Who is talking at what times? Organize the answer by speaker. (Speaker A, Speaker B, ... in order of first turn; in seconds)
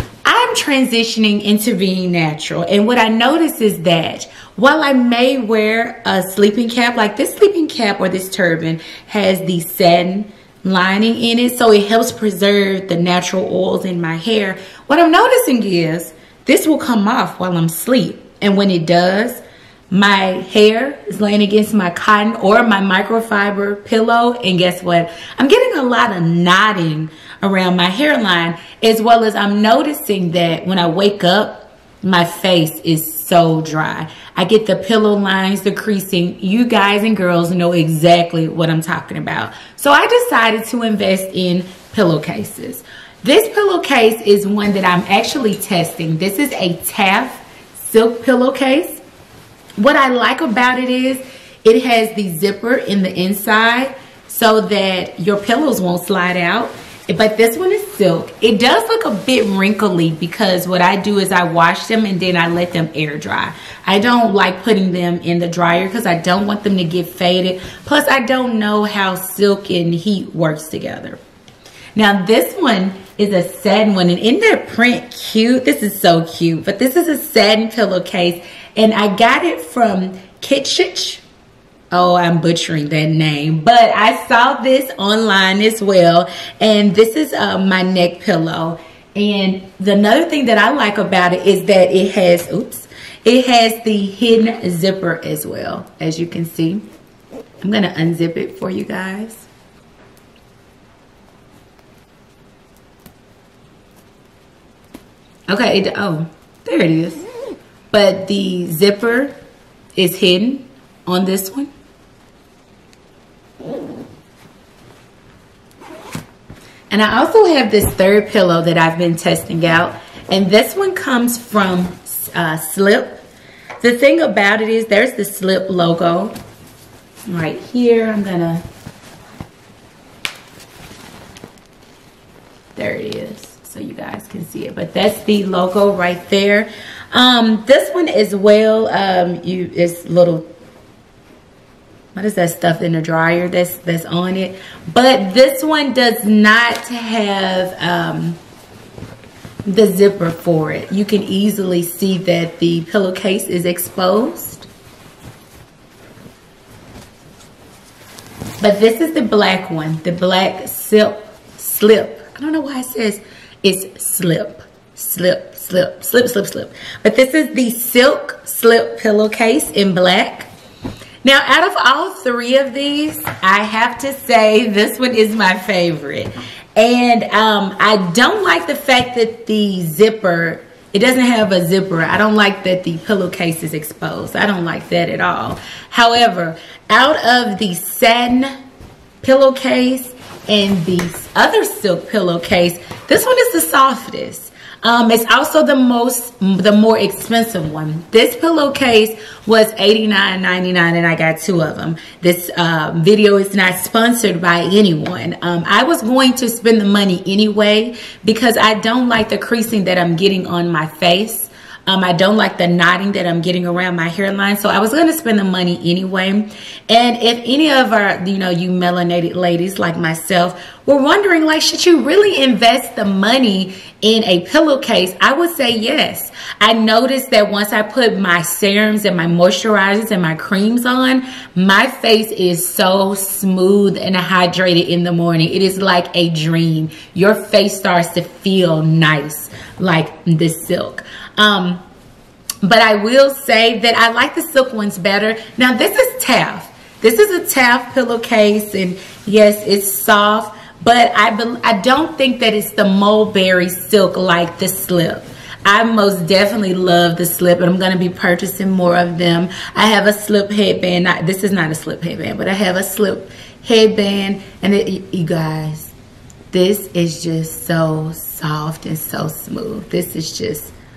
Speaker A: 0.2-49.0, 49.8-71.2, 71.9-81.2, 81.9-96.8, 97.6-99.5, 105.5-107.2, 107.9-109.3, 110.0-111.7, 116.9-123.2, 123.8-126.3, 127.3-128.6, 132.8-140.5, 142.1-148.4, 149.7-154.7, 158.6-170.5, 171.2-188.5, 189.2-241.8, 242.6-265.9, 266.5-270.7